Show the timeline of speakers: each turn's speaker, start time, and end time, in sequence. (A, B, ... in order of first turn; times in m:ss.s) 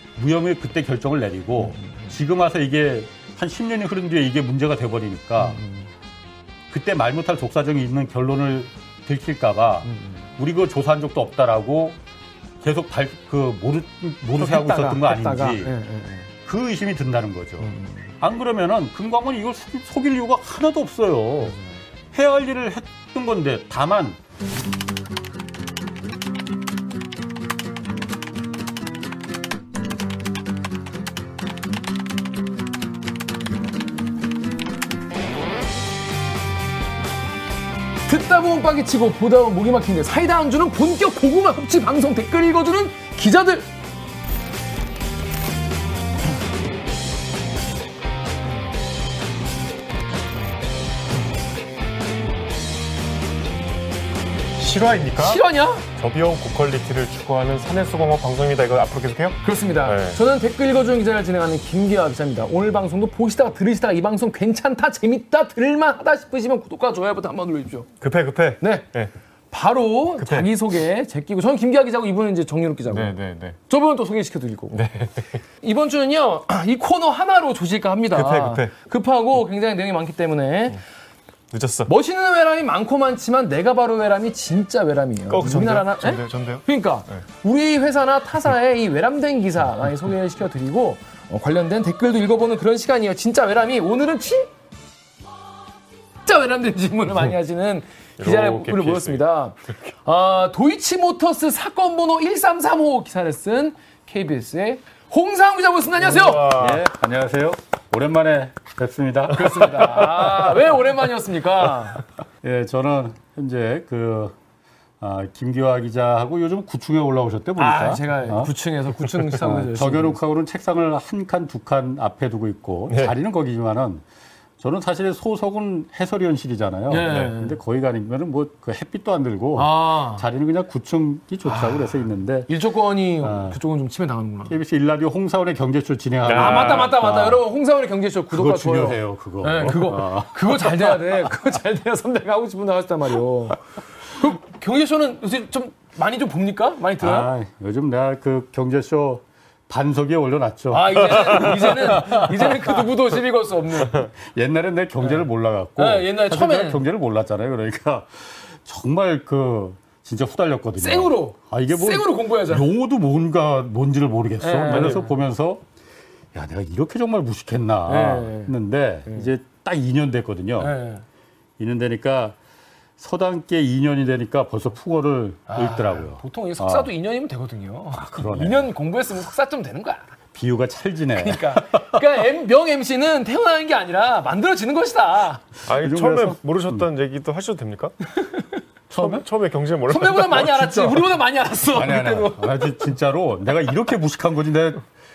0:00.2-0:05.6 A
0:01.6-0:02.1 B
0:05.4-0:05.9 B
0:06.7-0:12.0 A
0:09.9-0:10.2 B
0:12.6-0:15.7 A
0:14.4-0:16.3 B
0:16.4-0:21.6 A
0:17.6-0:18.1 B
0:21.4-0:21.8 B
0:22.1-0:24.2 A
0:38.1-0:43.7 B
0:54.6-0:55.4 C
0:55.2-0:55.8 B
0:56.0-1:00.2 C
0:59.4-1:07.9 B
1:08.0-1:09.1 C
1:08.6-1:08.9 B
1:09.5-1:13.1 B
1:10.2-1:10.5 C
1:12.9-1:13.6 C
1:13.7-1:15.0 B
1:14.7-1:15.4 C
1:15.6-1:20.8 B
1:18.1-1:18.7 C
1:21.5-1:21.9 C
1:21.9-1:34.5 B
1:25.3-1:26.6 C
1:36.2-1:46.6 B
1:38.2-1:39.2 C
1:46.2-1:46.8 C
1:46.2-1:50.5 A
1:49.3-1:52.0 B
1:52.4-1:54.4 A
1:55.0-1:58.5 A
1:57.6-2:00.2 B
1:59.3-2:04.0 A
2:02.9-2:03.1 C
2:04.6-2:12.5 A
2:06.9-2:07.6 B
2:09.6-2:10.2 B
2:11.4-2:14.6 B
2:13.2-2:13.6 A
2:14.5-2:17.4 A
2:16.2-2:17.0 C
2:16.3-2:27.3 B
2:18.3-2:21.1 A
2:27.0-2:32.8 A
2:30.7-2:34.1 B
2:34.0-2:45.6 A
2:35.8-2:36.8 B
2:40.8-2:42.7 B
2:44.4-2:45.1 B
2:44.7-2:45.0 C
2:46.3-2:50.7 A
2:47.8-2:48.5 B
2:50.6-2:51.0 B
2:51.6-2:52.4 A
2:53.0-2:56.9 A
2:55.5-3:00.1 B
2:57.9-2:58.7 A
3:00.3-3:02.0 A
3:01.2-3:05.5 B
3:05.6-3:06.8 A
3:05.7-3:07.9 C
3:08.9-3:09.2 A
3:09.0-3:11.0 C
3:09.8-3:12.9 B
3:11.7-3:14.8 A